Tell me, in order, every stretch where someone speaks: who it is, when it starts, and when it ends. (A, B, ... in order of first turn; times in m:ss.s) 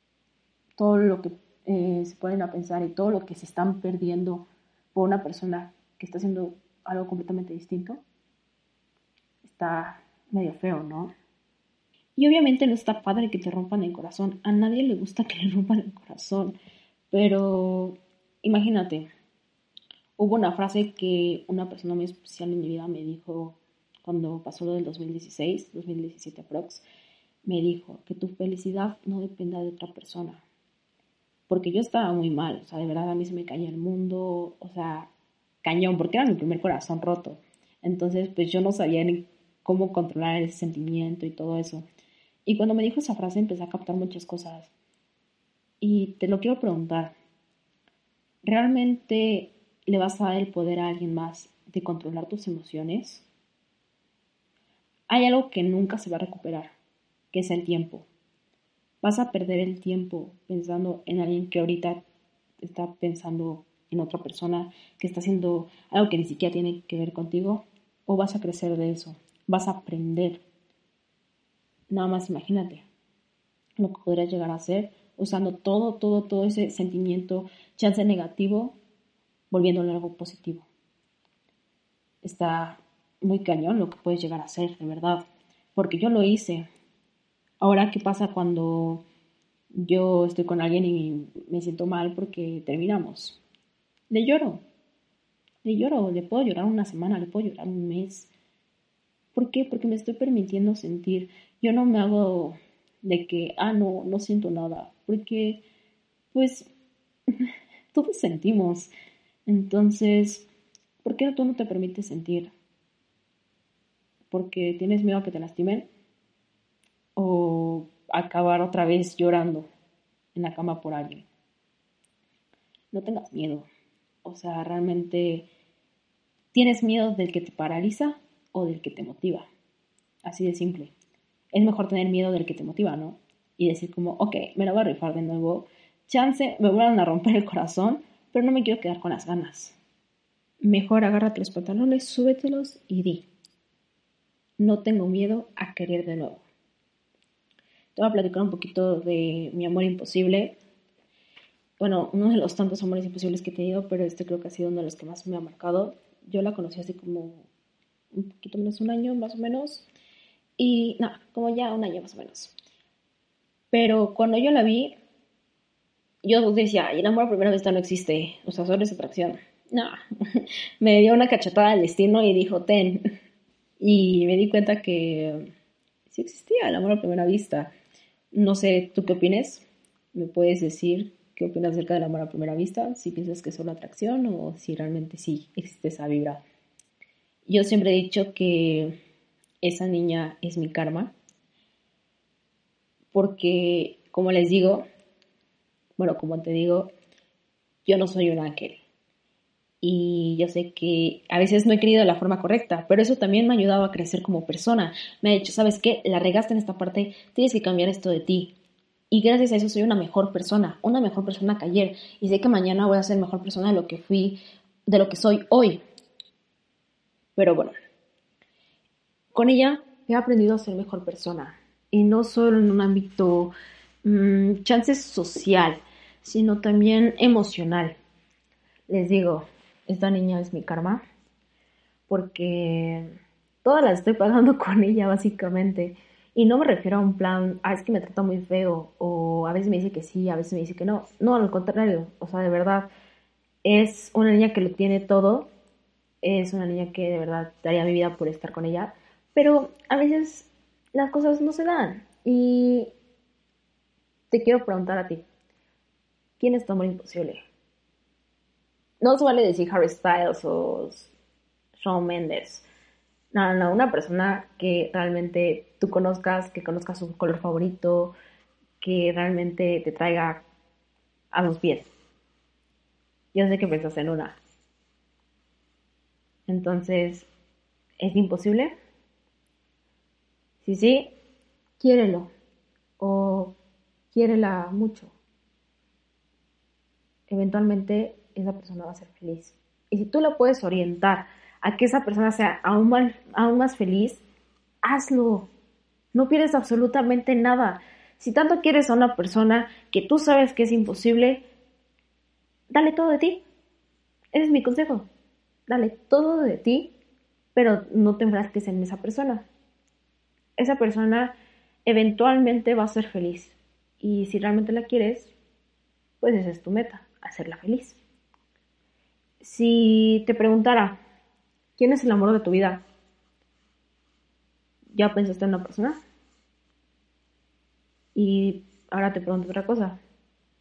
0:00.8-0:08.0 A
0:09.4-0:11.1 A
0:12.2-0:16.6 A
0:17.1-0:19.1 A
0:20.2-0:26.8 A
0:27.4-0:30.4 A
0:31.5-0:35.1 A
0:35.6-0:41.9 A
0:42.5-0:44.7 A
0:45.8-0:47.2 A
0:48.4-0:53.2 A
0:55.1-0:56.7 A
0:57.3-0:58.1 A
0:59.0-1:02.0 A
1:02.6-1:10.4 A
1:11.9-1:12.9 A
1:13.8-1:18.8 A
1:19.5-1:20.7 A
1:22.2-1:25.2 A
1:25.8-1:26.7 A
1:27.6-1:29.0 A
1:29.7-1:33.4 A
1:34.1-1:34.6 A
1:35.6-1:38.3 A
1:39.4-1:45.6 A
1:46.3-1:46.7 A
1:47.3-1:48.9 A
1:49.5-1:50.5 A
1:51.0-1:52.5 A
1:54.3-1:55.9 A
1:57.2-1:59.7 A
2:00.4-2:01.3 A
2:02.9-2:03.7 A
2:04.2-2:05.5 A
2:06.5-2:09.5 A
2:10.2-2:10.9 A
2:11.5-2:19.8 A
2:20.6-2:23.3 A
2:24.6-2:26.4 A
2:28.0-2:30.5 A
2:31.8-2:37.5 A
2:38.1-2:39.9 A
2:40.6-2:42.5 A
2:43.7-2:45.0 A
2:46.2-2:53.0 A
2:53.8-2:55.5 A
2:56.1-2:57.7 A
2:58.3-3:06.4 A
3:07.5-3:09.0 A
3:09.6-3:11.1 A
3:13.1-3:14.8 A
3:16.0-3:16.9 A
3:17.8-3:18.8 A
3:19.8-3:28.5 A
3:29.1-3:35.8 A
3:37.4-3:37.7 A
3:39.3-3:43.5 A
3:44.0-3:48.0 A
3:48.9-3:51.0 A
3:52.1-3:53.1 A
3:53.6-4:02.9 A
4:03.6-4:05.5 A
4:06.2-4:12.9 A
4:14.3-4:15.2 A
4:16.4-4:17.4 A
4:19.0-4:21.1 A
4:21.8-4:22.7 A
4:23.3-4:28.1 A
4:28.8-4:30.4 A
4:31.3-4:31.9 A
4:33.3-4:34.4 A
4:36.5-4:37.3 A
4:38.0-4:38.7 A
4:40.6-4:41.1 A
4:41.8-4:42.3 A
4:43.0-4:43.6 A
4:44.1-4:45.1 A
4:47.3-4:54.2 A
4:54.8-4:55.5 A
4:56.1-5:01.4 A
5:02.7-5:03.4 A
5:04.3-5:05.1 A
5:05.7-5:06.9 A
5:07.6-5:09.4 A
5:10.6-5:11.3 A
5:11.9-5:15.3 A
5:16.2-5:18.0 A
5:19.4-5:21.0 A
5:21.8-5:22.8 A
5:24.9-5:26.0 A
5:28.2-5:30.0 A